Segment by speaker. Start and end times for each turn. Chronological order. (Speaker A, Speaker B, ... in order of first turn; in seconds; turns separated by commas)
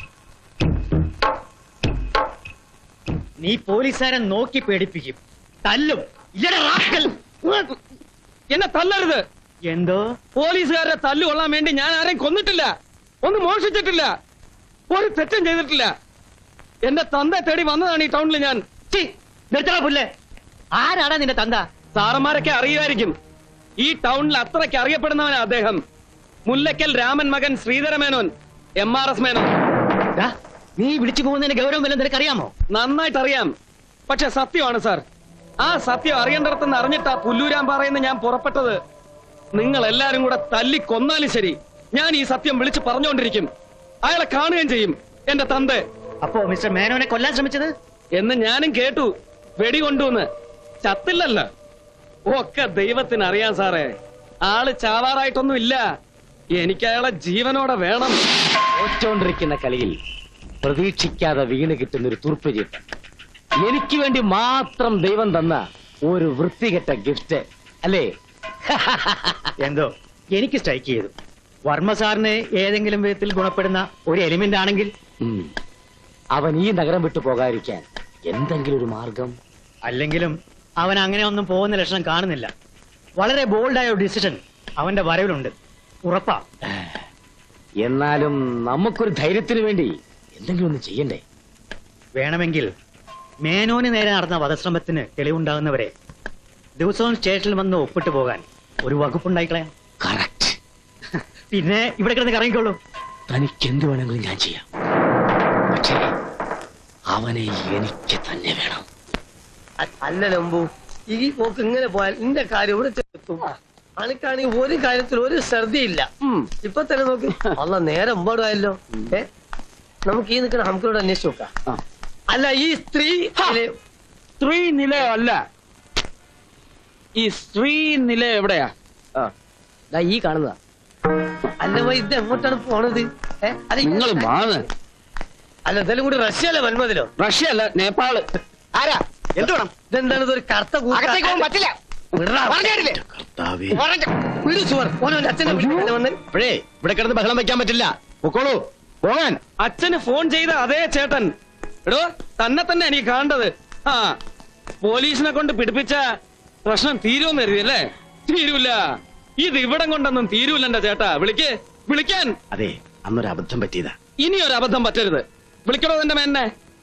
Speaker A: 3.4-7.6, Speaker B: 8.5-9.2, Speaker A: 9.7-10.0, Speaker B: 10.4-12.7, Speaker B: 13.2-14.1, Speaker B: 14.9-15.9, Speaker B: 16.9-18.6, Speaker A: 18.9-20.1, Speaker A: 20.7-21.6, Speaker B: 22.0-23.1, Speaker B: 23.8-25.8, Speaker B: 26.5-29.5, Speaker A: 30.1-32.5, Speaker B: 32.7-33.5, Speaker B: 34.1-35.0, Speaker B: 35.6-38.8, Speaker B: 39.5-43.5, Speaker B: 44.0-45.8, Speaker A: 46.2-47.7, Speaker B: 48.2-50.3, Speaker B: 50.8-51.5, Speaker B: 52.3-53.9, Speaker B: 54.5-55.8, Speaker B: 56.6-58.2, Speaker C: 58.8-60.0, Speaker C: 60.6-62.8, Speaker C: 63.6-68.1, Speaker C: 68.7-69.5, Speaker A: 69.6-71.1, Speaker A: 71.7-74.9, Speaker C: 75.2-75.5, Speaker C: 76.4-79.4, Speaker A: 79.9-82.5, Speaker A: 83.2-85.5, Speaker A: 86.1-86.5, Speaker C: 86.7-87.0, Speaker C: 87.8-91.2, Speaker A: 92.2-92.7, Speaker A: 93.4-95.9, Speaker A: 96.8-99.7, Speaker C: 100.0-100.6, Speaker A: 101.5-102.8, Speaker C: 103.3-104.7, Speaker C: 105.7-106.1, Speaker C: 107.1-108.9, Speaker D: 109.8-116.1, Speaker D: 116.6-119.3, Speaker D: 120.1-121.5, Speaker D: 122.3-123.7, Speaker B: 124.4-125.4, Speaker B: 127.2-129.3, Speaker D: 129.9-130.5, Speaker D: 131.6-134.3, Speaker B: 133.8-134.7, Speaker D: 135.7-137.1, Speaker B: 137.2-138.3, Speaker E: 138.8-139.7, Speaker D: 139.9-141.5, Speaker E: 140.9-141.7, Speaker D: 142.2-142.8, Speaker E: 142.5-143.0, Speaker F: 142.9-143.8, Speaker E: 143.7-144.1, Speaker D: 144.4-146.2, Speaker F: 146.3-149.4, Speaker B: 149.6-151.3, Speaker B: 151.9-154.1, Speaker B: 154.8-156.0, Speaker B: 156.7-158.8, Speaker B: 159.4-162.3, Speaker F: 162.5-163.9, Speaker B: 164.2-166.5